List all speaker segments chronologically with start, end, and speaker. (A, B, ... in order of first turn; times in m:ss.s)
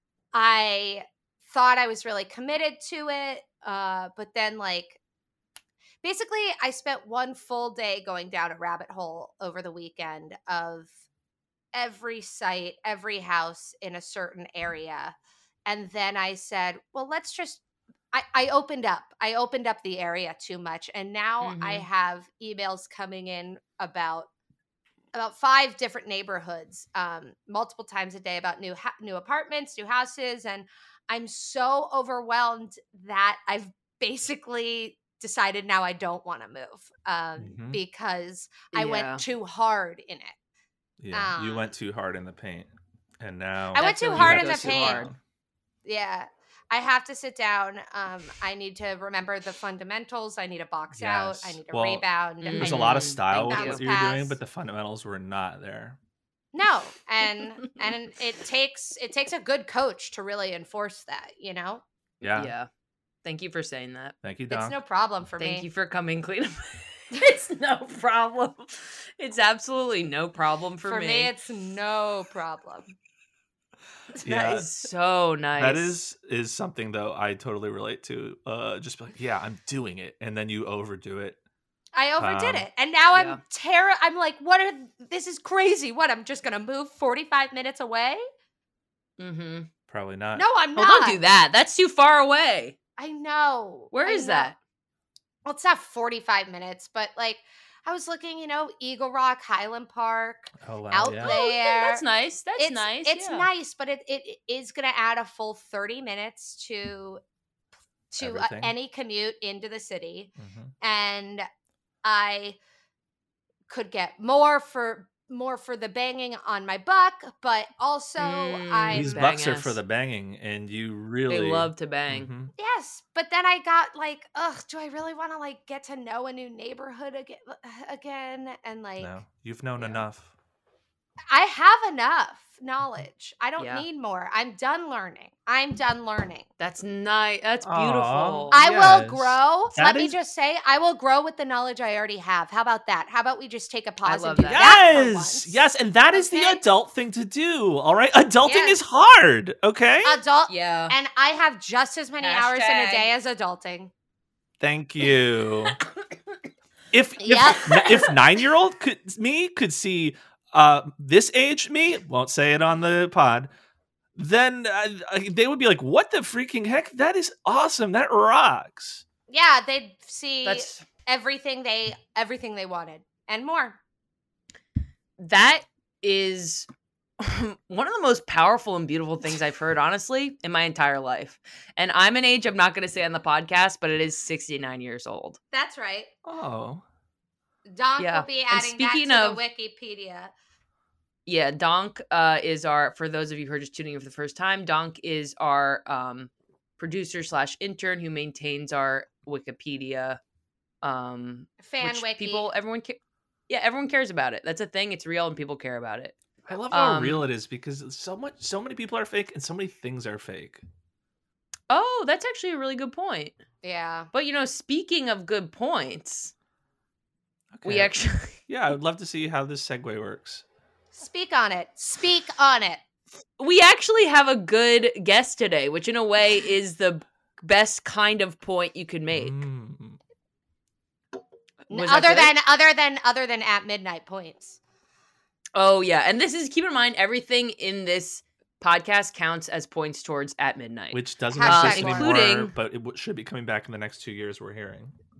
0:00.3-0:05.0 A
0:06.0-0:10.9 A
0:11.7-0:24.3 A
0:21.4-0:21.9 B
0:25.1-0:40.4 A
0:37.4-0:37.8 C
0:38.7-0:39.2 B
0:41.0-0:45.2 C
0:41.1-0:41.7 A
0:43.7-0:45.1 A
0:43.8-0:45.1 B
0:45.8-0:54.4 A
0:50.9-0:56.0 C
0:52.4-0:53.8 B
0:56.5-1:01.8 A
1:02.2-1:02.5 C
1:02.3-1:02.7 B
1:03.2-1:04.2 B
1:04.2-1:04.8 C
1:04.5-1:05.7 A
1:05.4-1:11.3 B
1:10.8-1:12.9 A
1:14.2-1:14.7 C
1:14.2-1:16.0 B
1:15.6-1:21.4 C
1:21.9-1:28.2 A
1:22.2-1:22.7 C
1:23.1-1:23.4 B
1:29.2-1:29.7 B
1:29.9-1:30.4 C
1:30.4-1:31.2 A
1:30.8-1:32.8 B
1:33.0-1:34.5 A
1:33.9-1:34.6 B
1:35.5-1:42.0 A
1:40.6-1:41.4 C
1:41.2-1:43.5 B
1:42.6-1:47.2 A
1:48.1-1:51.5 A
1:48.2-1:48.7 C
1:50.4-1:50.7 C
1:52.0-1:52.6 A
1:53.7-1:59.2 A
1:58.2-1:59.8 B
1:58.9-2:02.5 C
2:01.3-2:02.3 B
2:02.6-2:09.1 A
2:09.0-2:10.3 C
2:11.3-2:16.5 A
2:13.6-2:13.8 B
2:16.6-2:18.6 B
2:17.6-2:20.2 C
2:18.5-2:25.6 A
2:24.0-2:24.7 B
2:24.5-2:30.2 C
2:26.1-2:26.6 A
2:28.4-2:28.8 A
2:30.0-2:33.9 A
2:30.5-2:31.0 B
2:32.2-2:33.1 B
2:34.6-2:35.8 C
2:36.9-2:43.5 C
2:37.2-2:38.1 A
2:37.7-2:38.1 B
2:44.2-2:49.0 C
2:49.3-2:53.8 A
2:50.4-2:50.9 B
2:55.2-2:56.7 B
2:57.2-3:05.4 B
3:05.5-3:06.1 A
3:06.2-3:06.8 C
3:07.7-3:10.3 A
3:08.0-3:09.4 B
3:11.3-3:20.2 B
3:20.8-3:26.2 B
3:21.6-3:22.5 A
3:26.5-3:30.6 C
3:26.7-3:27.3 B
3:31.7-3:33.4 B
3:33.6-3:34.1 A
3:34.1-3:36.3 B
3:37.5-3:40.4 C
3:37.6-3:38.4 B
3:40.9-3:42.8 A
3:43.4-3:49.4 B
3:49.1-3:50.0 C
3:51.7-3:52.4 B
3:51.7-3:54.6 A
3:55.5-4:02.5 B
4:00.9-4:04.9 C
4:01.3-4:02.2 A